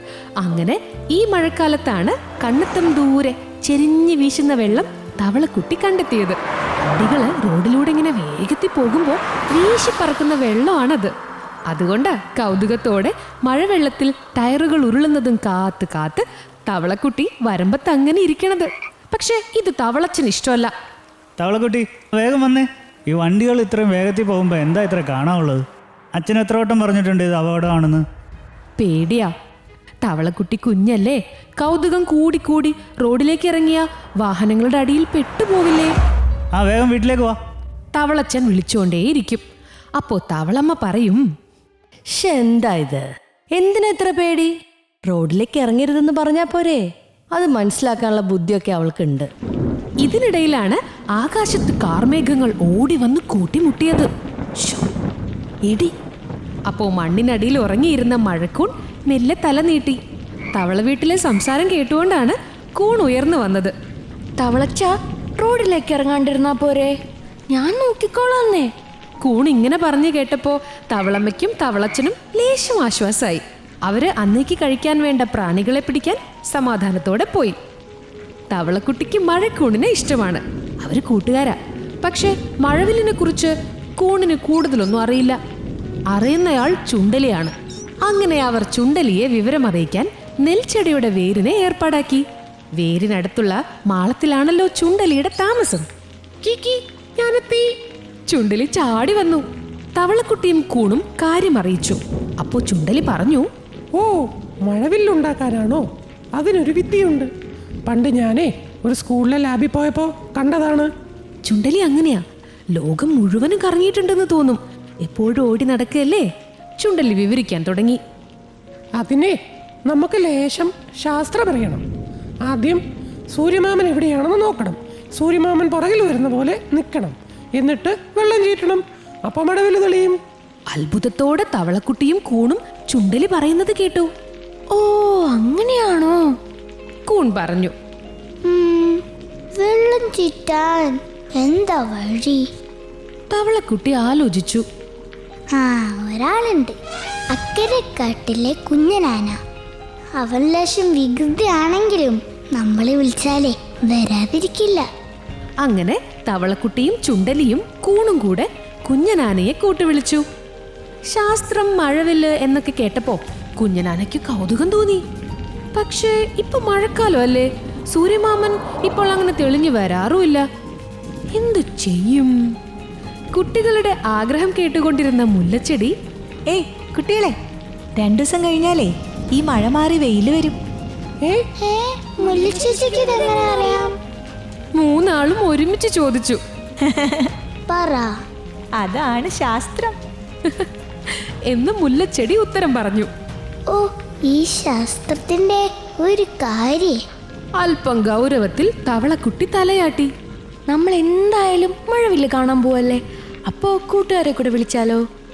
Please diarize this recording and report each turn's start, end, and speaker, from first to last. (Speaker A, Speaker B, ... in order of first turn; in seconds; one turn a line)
Speaker A: 0.4-11.1
Speaker A: 11.7-20.7
Speaker B: 21.4-25.6
Speaker B: 26.1-28.0
Speaker A: 28.8-29.3
Speaker A: 30.0-35.9
Speaker B: 36.5-37.3
Speaker A: 37.9-39.4
Speaker A: 40.0-41.2
Speaker C: 42.1-44.5
Speaker C: 45.0-49.3
Speaker A: 50.0-54.1
Speaker A: 56.7-60.0
Speaker A: 60.5-63.7
Speaker C: 64.4-66.9
Speaker C: 67.5-68.7
Speaker A: 69.2-77.5
Speaker A: 78.5-85.4
Speaker A: 86.1-92.2
Speaker A: 92.8-95.9
Speaker D: 96.4-97.7
Speaker A: 98.3-103.5
Speaker D: 103.9-107.3
Speaker D: 107.9-110.9
Speaker A: 111.4-118.0
Speaker D: 119.0-119.3
Speaker D: 119.9-121.8
Speaker D: 122.4-130.2
Speaker A: 130.7-134.1
Speaker C: 134.7-136.3
Speaker A: 137.1-137.7
Speaker E: 138.4-139.0
Speaker E: 139.6-142.4
Speaker A: 143.3-144.6
Speaker E: 145.5-146.7
Speaker E: 147.3-149.4
Speaker E: 150.2-154.8
Speaker A: 155.6-160.2
Speaker A: 161.1-165.0
Speaker A: 165.7-170.4
Speaker A: 171.3-172.4
Speaker A: 173.3-175.9
Speaker F: 176.5-177.3
Speaker F: 177.9-180.6
Speaker E: 181.6-183.9
Speaker D: 182.5-183.8
Speaker A: 184.8-186.4
Speaker F: 186.8-187.3
Speaker E: 187.7-188.1
Speaker F: 188.8-190.0
Speaker A: 190.4-193.1
Speaker E: 193.7-197.0
Speaker A: 197.6-200.1
Speaker C: 200.7-205.0